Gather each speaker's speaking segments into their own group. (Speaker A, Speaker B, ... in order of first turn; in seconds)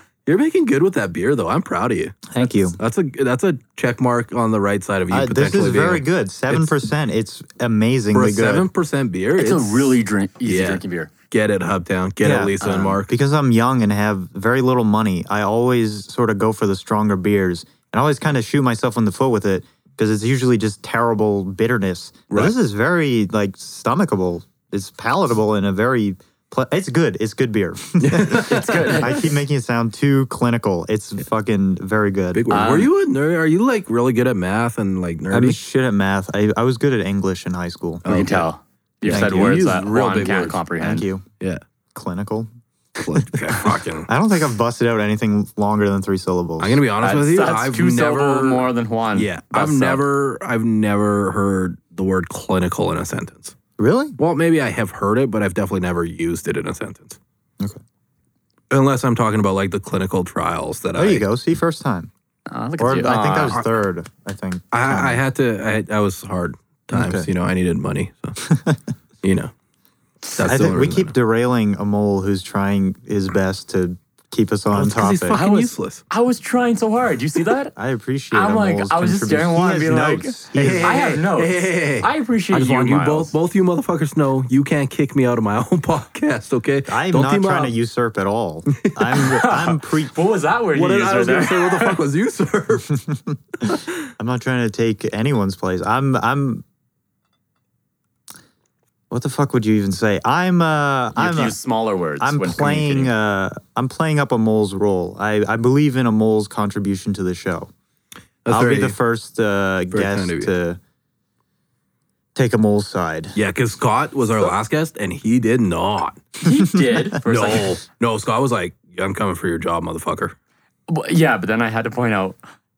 Speaker A: 0.3-6.7, 8.1-13.1, 28.0-29.0, 32.3-35.6, 38.0-38.5, 39.0-40.6, 43.0-44.1, 46.6-53.6, 54.2-57.2, 58.7-61.3, 64.7-68.4, 69.2-69.5, 70.3-71.1, 74.7-76.0, 80.5-87.7, 88.8-89.2, 90.7-93.0, 93.7-93.9, 108.5-109.0, 109.9-110.5, 113.4-116.2, 117.2-120.3
Speaker B: 2.3-2.8, 5.1-8.7, 12.2-32.4, 35.3-38.0, 39.1-39.5, 40.8-41.3, 41.9-42.5, 43.0-46.8, 53.8-54.2, 61.0-62.1, 62.8-65.2, 66.9-67.3, 68.5-68.8, 70.5-75.4, 77.8-81.1, 86.9-90.2, 93.1-96.6, 99.1-101.6, 102.2-107.7, 108.5-110.8, 112.3-113.4
Speaker C: 9.4-11.1, 12.6-13.0, 28.5-29.3, 32.5-32.9, 38.1-41.1, 47.0-50.0, 62.5-63.6, 75.4-77.7, 78.3-83.3, 89.2-92.0, 101.2-103.1, 116.4-117.8, 120.9-122.4